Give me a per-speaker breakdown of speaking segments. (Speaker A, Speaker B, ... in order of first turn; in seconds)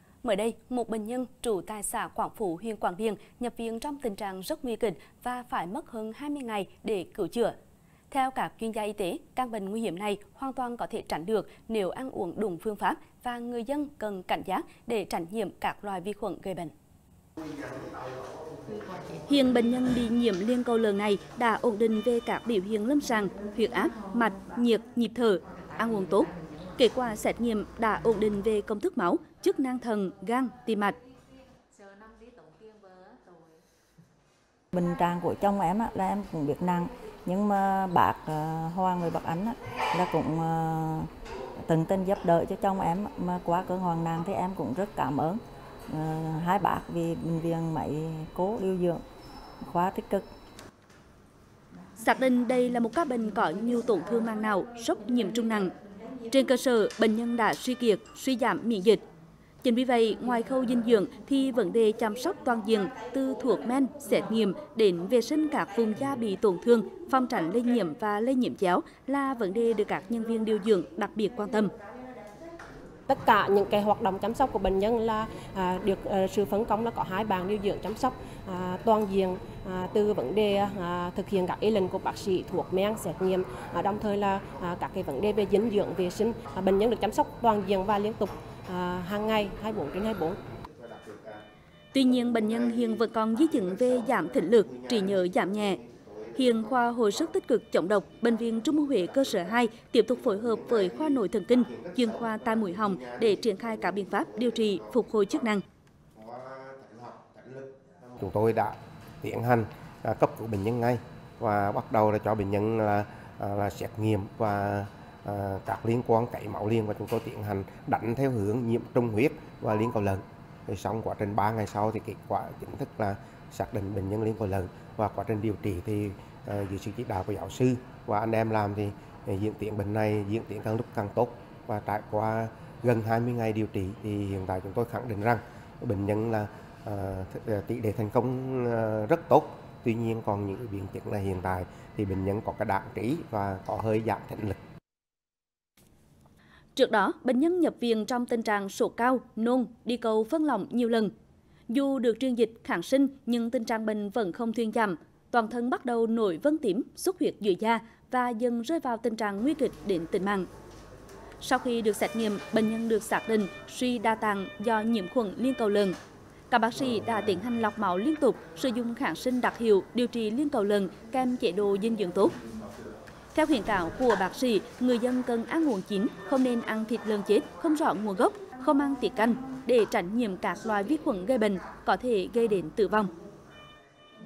Speaker A: 0.2-7.5, 8.1-16.7, 19.3-30.9, 52.0-55.7, 56.3-59.0, 59.6-71.7, 91.9-95.8, 96.3-105.6, 146.7-151.1, 151.7-160.4, 161.4-165.9, 166.5-172.3, 173.3-183.1
Speaker B: 34.7-41.1, 41.6-49.0, 49.6-50.2
Speaker C: 73.1-90.4
Speaker D: 90.7-91.4, 92.0-97.3, 98.2-99.6, 100.1-105.2, 106.1-144.6